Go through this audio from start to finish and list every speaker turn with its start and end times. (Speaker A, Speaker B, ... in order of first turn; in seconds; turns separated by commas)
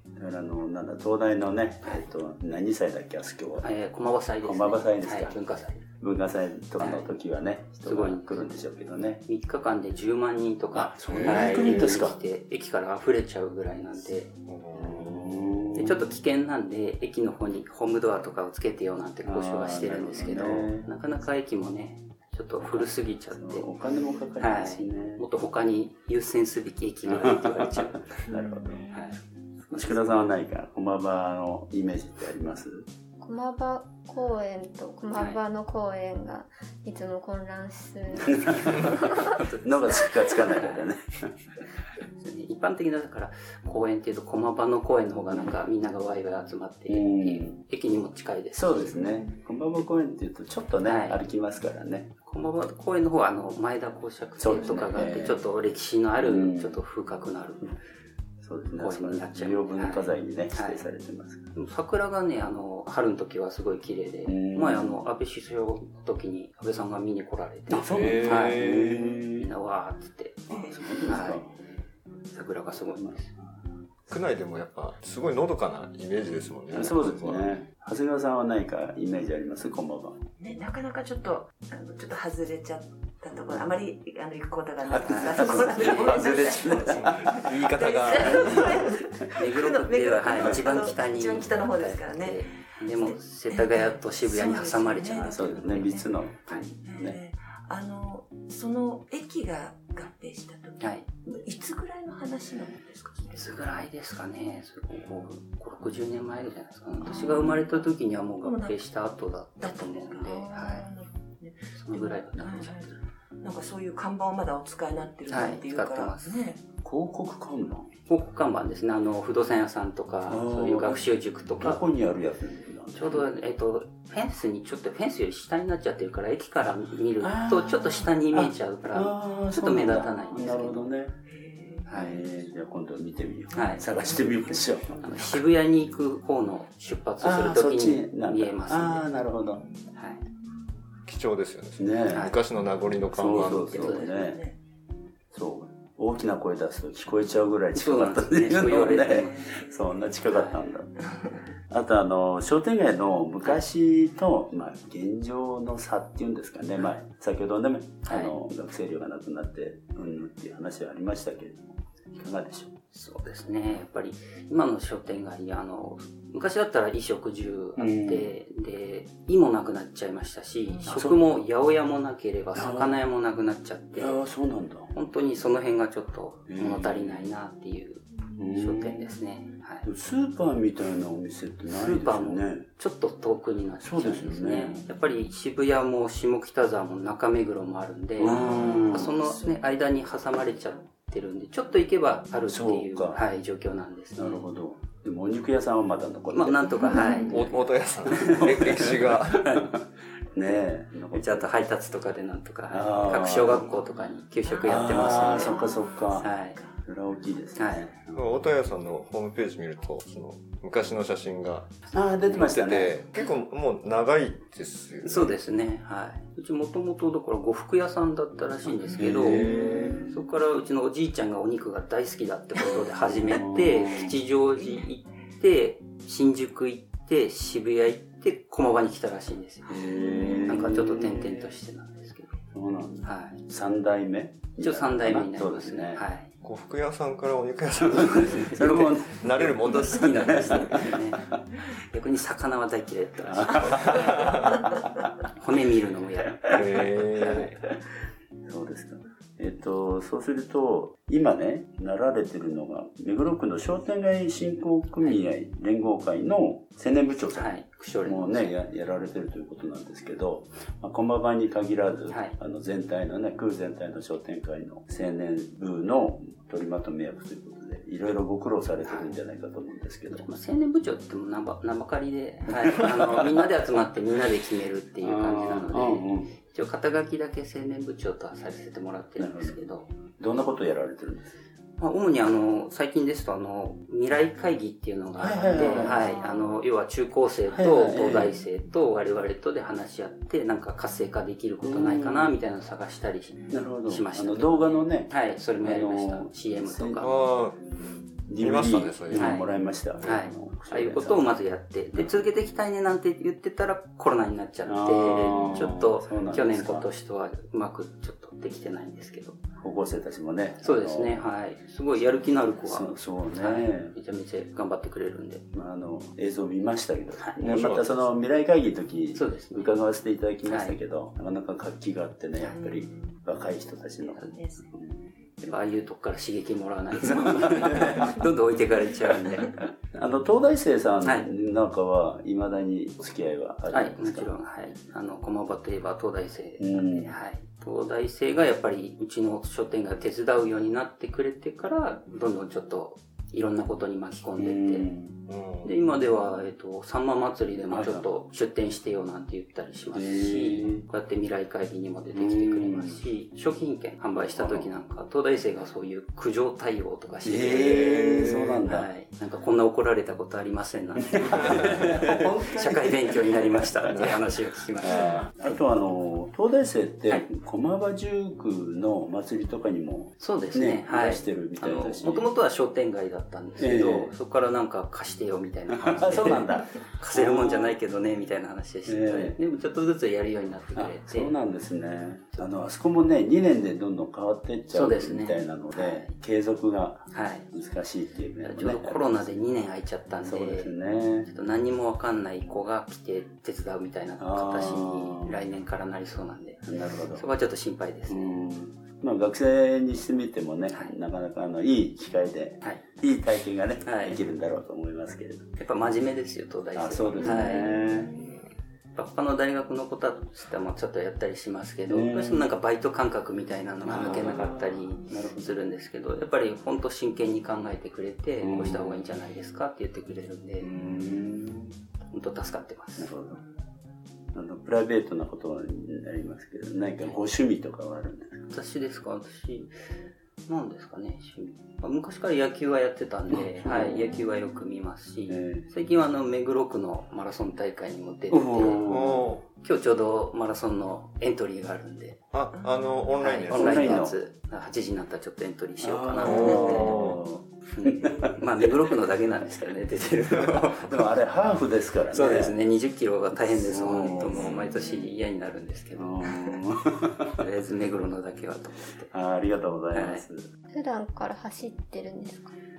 Speaker A: 0.2-3.7, Speaker B: 3.6-5.8, Speaker A: 4.4-5.4, Speaker A: 6.0-9.2, Speaker B: 6.8-7.1, Speaker B: 7.8-8.6, Speaker B: 9.2-14.3, Speaker A: 10.7-12.2, Speaker C: 11.1-11.9, Speaker C: 14.5-16.0, Speaker A: 14.8-16.1, Speaker B: 15.8-23.7, Speaker A: 19.2-20.9, Speaker A: 22.6-25.2, Speaker B: 24.4-28.3, Speaker A: 27.1-29.0, Speaker B: 28.9-29.2, Speaker A: 29.7-32.9, Speaker B: 29.7-30.1, Speaker D: 33.2-39.4, Speaker B: 35.1-35.4, Speaker A: 38.3-38.9, Speaker B: 38.8-40.9, Speaker A: 39.6-41.3, Speaker B: 42.1-49.0, Speaker A: 46.9-47.6, Speaker A: 48.5-52.1, Speaker B: 50.9-51.2, Speaker B: 52.2-57.7, Speaker A: 54.4-55.4, Speaker A: 56.2-56.8, Speaker A: 58.4-61.5, Speaker B: 58.8-60.9, Speaker B: 61.5-68.6, Speaker A: 64.3-65.0, Speaker A: 67.7-69.5, Speaker C: 67.9-69.2, Speaker B: 69.3-70.5, Speaker E: 70.5-71.3, Speaker A: 70.6-71.5, Speaker B: 71.0-71.4, Speaker B: 72.3-73.3, Speaker A: 72.7-73.5, Speaker C: 74.1-77.5, Speaker A: 76.7-80.2, Speaker E: 80.4-103.9, Speaker A: 84.9-88.9, Speaker B: 85.0-86.8, Speaker C: 87.0-88.5, Speaker B: 89.3-95.9, Speaker A: 95.3-97.2, Speaker B: 96.5-96.7, Speaker B: 100.8-101.1, Speaker B: 103.4-110.9, Speaker E: 107.0-108.8, Speaker E: 109.6-116.7, Speaker B: 111.7-113.0, Speaker B: 115.3-116.4, Speaker A: 116.8-117.9, Speaker B: 118.1-121.8, Speaker A: 120.2-123.2, Speaker B: 122.9-130.8, Speaker A: 127.2-131.1, Speaker E: 131.3-132.1, Speaker B: 131.9-132.2, Speaker A: 131.9-135.4, Speaker E: 133.5-135.0, Speaker B: 133.5-133.9, Speaker B: 135.0-139.1, Speaker A: 137.2-139.6, Speaker B: 139.9-140.2, Speaker C: 141.1-144.0, Speaker A: 141.8-142.3, Speaker B: 142.1-142.4, Speaker A: 143.1-144.4, Speaker E: 143.2-144.6, Speaker B: 143.7-144.1, Speaker A: 145.3-150.9, Speaker B: 147.8-149.3, Speaker E: 148.9-149.7, Speaker B: 150.3-150.6, Speaker E: 151.0-151.4, Speaker A: 151.7-162.8, Speaker B: 158.1-158.3, Speaker B: 162.9-174.2, Speaker A: 167.8-168.3, Speaker E: 170.7-171.0, Speaker A: 170.9-171.2, Speaker A: 172.6-173.0, Speaker A: 174.0-174.9, Speaker B: 174.9-179.9, Speaker A: 176.5-177.2, Speaker A: 178.4-179.1, Speaker A: 179.8-182.7, Speaker B: 181.7-194.5, Speaker A: 183.8-184.9, Speaker A: 188.2-189.2, Speaker E: 188.2-189.7, Speaker A: 192.5-193.2, Speaker A: 194.2-197.6, Speaker B: 196.3-197.6, Speaker E: 196.8-197.3, Speaker C: 197.2-199.6, Speaker A: 198.1-199.8, Speaker A: 200.3-201.5, Speaker B: 201.1-205.6, Speaker A: 202.7-203.7, Speaker E: 204.5-206.8, Speaker A: 204.7-208.0, Speaker B: 206.2-206.6, Speaker B: 207.6-207.9, Speaker C: 208.1-215.4, Speaker A: 211.9-213.0, Speaker B: 215.0-229.8, Speaker E: 218.8-219.1, Speaker A: 219.0-220.2, Speaker C: 219.1-220.0, Speaker A: 222.7-224.2, Speaker E: 224.6-224.9, Speaker A: 229.7-231.5, Speaker E: 229.8-230.8, Speaker B: 230.4-232.4, Speaker A: 232.5-236.1, Speaker B: 233.0-233.4, Speaker B: 234.6-236.3, Speaker C: 236.4-241.0, Speaker A: 238.0-241.3, Speaker B: 238.5-244.6, Speaker A: 243.2-245.1, Speaker C: 243.7-244.6, Speaker B: 245.3-247.5, Speaker A: 246.4-247.5, Speaker C: 246.5-247.5, Speaker A: 248.5-270.3, Speaker B: 257.2-258.5, Speaker B: 262.1-262.4, Speaker B: 268.8-269.1, Speaker B: 270.1-279.9, Speaker A: 272.5-273.3, Speaker A: 275.0-276.4, Speaker A: 279.2-279.6, Speaker A: 280.2-281.4, Speaker B: 281.8-297.2, Speaker A: 285.2-286.1, Speaker E: 285.5-286.6, Speaker A: 287.5-288.4, Speaker A: 291.6-292.3, Speaker A: 293.5-301.4, Speaker C: 297.0-297.6, Speaker C: 298.4-299.4, Speaker B: 299.1-299.5, Speaker B: 300.0-309.4, Speaker A: 304.6-306.9, Speaker A: 309.6-311.2, Speaker B: 310.6-315.4, Speaker A: 312.6-313.9, Speaker A: 315.5-325.5, Speaker B: 317.2-317.7, Speaker C: 317.4-317.9, Speaker B: 319.1-319.7, Speaker B: 320.5-320.8, Speaker E: 322.4-323.2, Speaker E: 324.1-324.8, Speaker B: 325.4-329.6, Speaker A: 327.2-328.1, Speaker A: 329.0-334.3, Speaker B: 331.0-331.3, Speaker B: 333.7-344.9, Speaker A: 336.6-337.1, Speaker A: 344.4-345.2, Speaker C: 345.3-345.8, Speaker B: 345.6-365.2, Speaker A: 347.7-348.1, Speaker A: 349.9-350.8, Speaker A: 352.1-353.0, Speaker A: 354.2-354.7, Speaker A: 357.2-358.9, Speaker C: 357.8-358.6, Speaker A: 361.0-363.6, Speaker C: 361.4-361.9, Speaker A: 364.8-372.3, Speaker C: 364.9-365.2, Speaker B: 370.2-381.3, Speaker A: 373.6-374.1, Speaker A: 375.7-377.8, Speaker A: 378.9-379.4, Speaker A: 380.8-389.0, Speaker B: 384.7-386.1, Speaker B: 387.1-387.5, Speaker B: 388.4-390.7, Speaker A: 390.2-391.3, Speaker B: 391.2-398.4, Speaker A: 394.2-395.4, Speaker A: 396.6-397.3, Speaker A: 398.1-405.5, Speaker B: 403.8-404.2, Speaker B: 405.6-407.8, Speaker A: 406.8-408.1, Speaker C: 408.1-408.4, Speaker B: 409.0-420.7, Speaker A: 411.9-412.5, Speaker A: 413.8-415.5, Speaker A: 418.4-419.0, Speaker A: 420.6-421.7, Speaker B: 422.1-423.1, Speaker A: 423.0-423.4, Speaker E: 423.3-423.6, Speaker A: 424.3-428.4, Speaker B: 428.5-429.7, Speaker B: 430.5-438.9, Speaker A: 433.3-434.2, Speaker A: 435.3-435.7, Speaker A: 438.3-439.3, Speaker C: 438.9-439.5, Speaker B: 439.6-442.2, Speaker C: 442.3-444.1, Speaker E: 442.5-443.0, Speaker B: 443.2-446.9, Speaker A: 443.5-444.2, Speaker A: 445.8-448.9, Speaker C: 446.2-447.2, Speaker B: 447.8-451.1, Speaker A: 450.4-452.6, Speaker B: 452.1-456.6, Speaker A: 453.3-454.5, Speaker A: 455.9-457.3, Speaker B: 457.4-459.1, Speaker A: 459.1-460.5, Speaker B: 459.9-460.2, Speaker D: 460.7-462.5